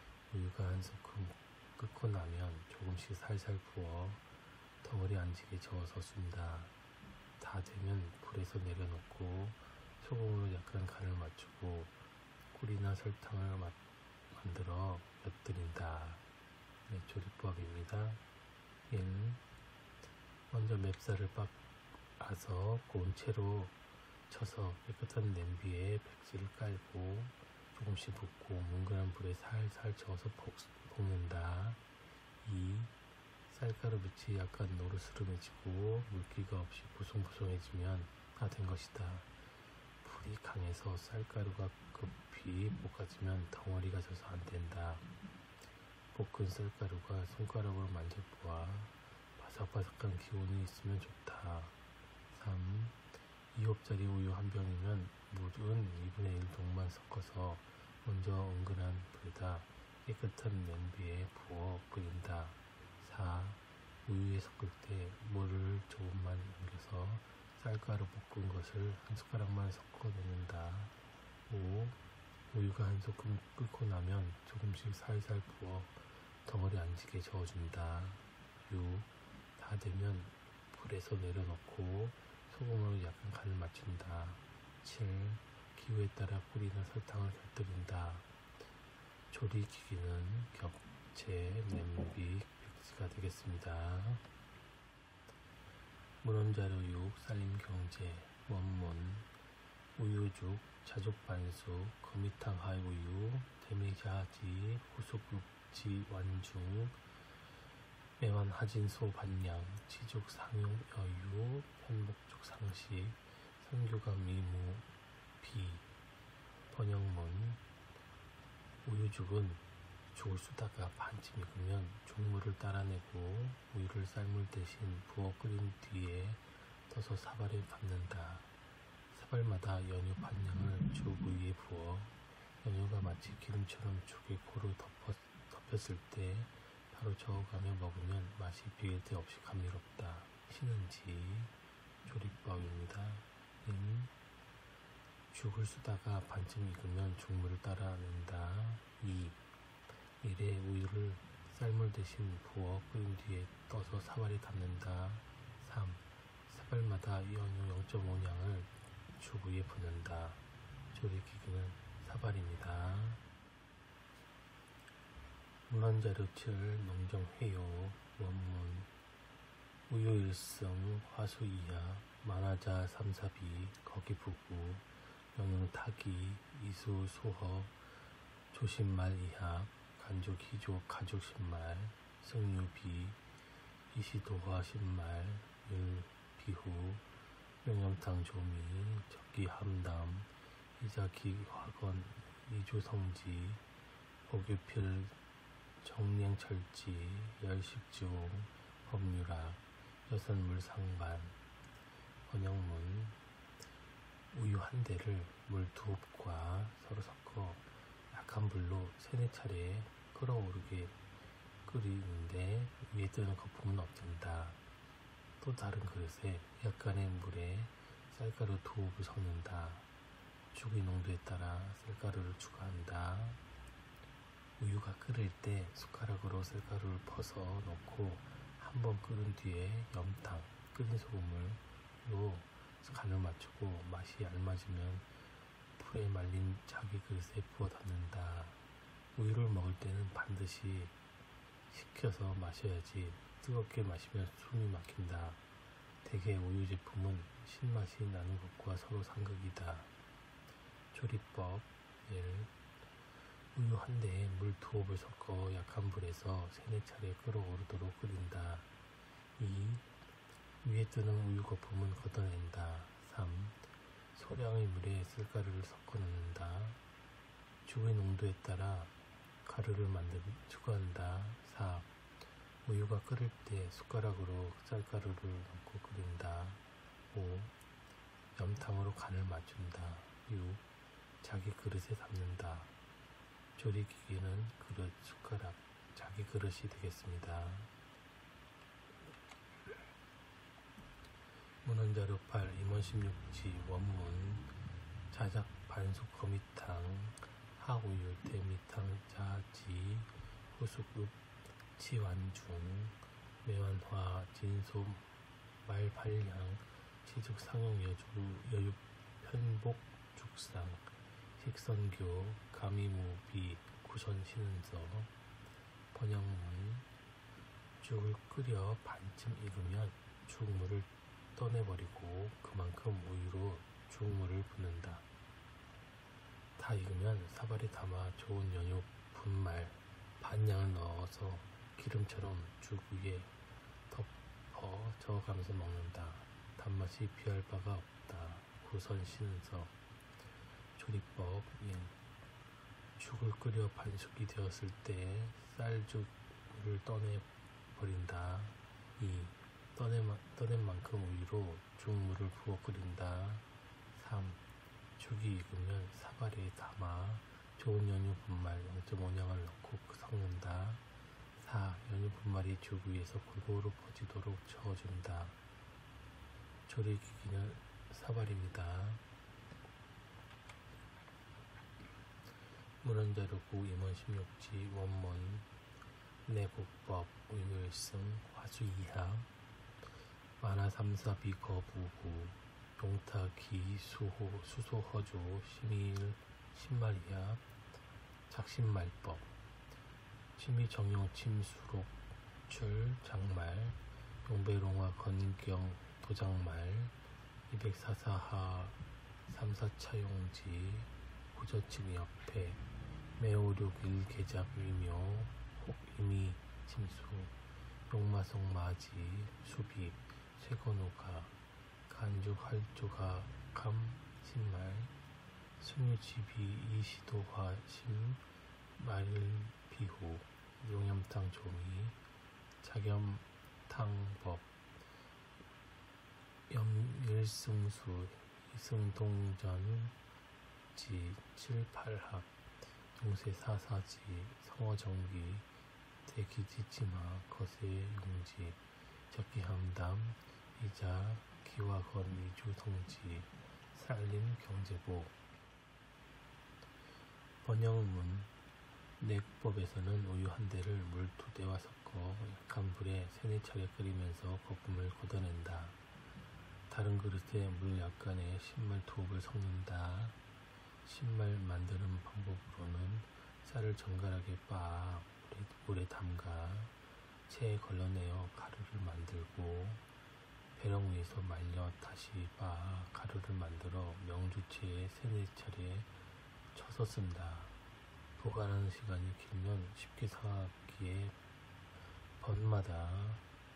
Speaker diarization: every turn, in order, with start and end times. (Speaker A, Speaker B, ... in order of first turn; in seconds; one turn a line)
Speaker A: 0.3-4.2
Speaker A: 4.8-6.7
Speaker A: 7.4-11.9
Speaker A: 12.5-13.8
Speaker A: 14.3-16.2
Speaker A: 16.9-18.2
Speaker A: 18.9-19.4
Speaker A: 20.5-21.6
Speaker A: 22.2-23.8
Speaker A: 24.3-31.8
Speaker A: 32.4-32.9
Speaker A: 33.5-39.3
Speaker A: 40.0-45.1
Speaker A: 46.1-51.8
Speaker A: 52.3-53.0
Speaker A: 53.5-71.0
Speaker A: 71.5-72.0
Speaker A: 72.5-88.3
Speaker A: 89.3-94.2
Speaker A: 96.2-99.3
Speaker A: 100.0-107.0
Speaker A: 108.2-114.9
Speaker A: 115.4-115.9
Speaker A: 116.7-117.6
Speaker A: 118.8-128.5
Speaker A: 129.1-141.5
Speaker A: 142.1-144.1
Speaker A: 145.3-149.4
Speaker A: 150.2-163.2
Speaker A: 165.7-168.9
Speaker A: 169.9-177.8
Speaker A: 178.5-183.2
Speaker A: 183.9-187.0
Speaker A: 187.6-193.6
Speaker A: 194.3-195.2
Speaker A: 195.8-201.4
Speaker A: 202.3-203.2
Speaker A: 204.3-211.0
Speaker A: 211.7-214.6
Speaker A: 215.4-219.9
Speaker A: 220.5-223.4
Speaker A: 224.6-235.1
Speaker A: 235.8-238.6
Speaker A: 239.2-240.9
Speaker A: 241.7-245.4
Speaker A: 246.0-249.9
Speaker A: 250.9-252.5
Speaker A: 253.5-258.7
Speaker A: 259.4-259.9
Speaker A: 260.6-263.6
Speaker A: 264.1-266.8
Speaker A: 267.6-268.9
Speaker A: 269.4-271.9
Speaker A: 272.6-277.5
Speaker A: 278.4-280.6
Speaker A: 281.2-282.7
Speaker A: 283.6-287.7
Speaker A: 291.6-294.5
Speaker A: 295.1-301.2
Speaker A: 301.8-305.1
Speaker A: 305.6-315.1
Speaker A: 315.9-316.9
Speaker A: 317.8-325.1
Speaker A: 326.6-333.3
Speaker A: 333.9-339.7
Speaker A: 340.8-341.9
Speaker A: 343.0-354.4
Speaker A: 355.0-360.8
Speaker A: 361.4-365.4
Speaker A: 366.7-369.0
Speaker A: 372.8-375.5
Speaker A: 376.3-379.3
Speaker A: 380.4-387.4
Speaker A: 388.3-389.3
Speaker A: 390.4-391.9
Speaker A: 392.5-396.9
Speaker A: 397.5-402.6
Speaker A: 403.2-407.3
Speaker A: 407.9-411.3
Speaker A: 411.9-414.9
Speaker A: 415.6-418.2
Speaker A: 418.8-422.0
Speaker A: 422.6-424.5
Speaker A: 426.5-429.9
Speaker A: 430.7-432.3
Speaker A: 433.0-435.5
Speaker A: 436.1-445.1
Speaker A: 447.4-448.3
Speaker A: 449.0-455.8
Speaker A: 456.7-460.2
Speaker A: 460.8-466.7
Speaker A: 467.3-469.8
Speaker A: 470.6-475.9
Speaker A: 476.5-477.6
Speaker A: 478.2-481.1
Speaker A: 482.2-483.2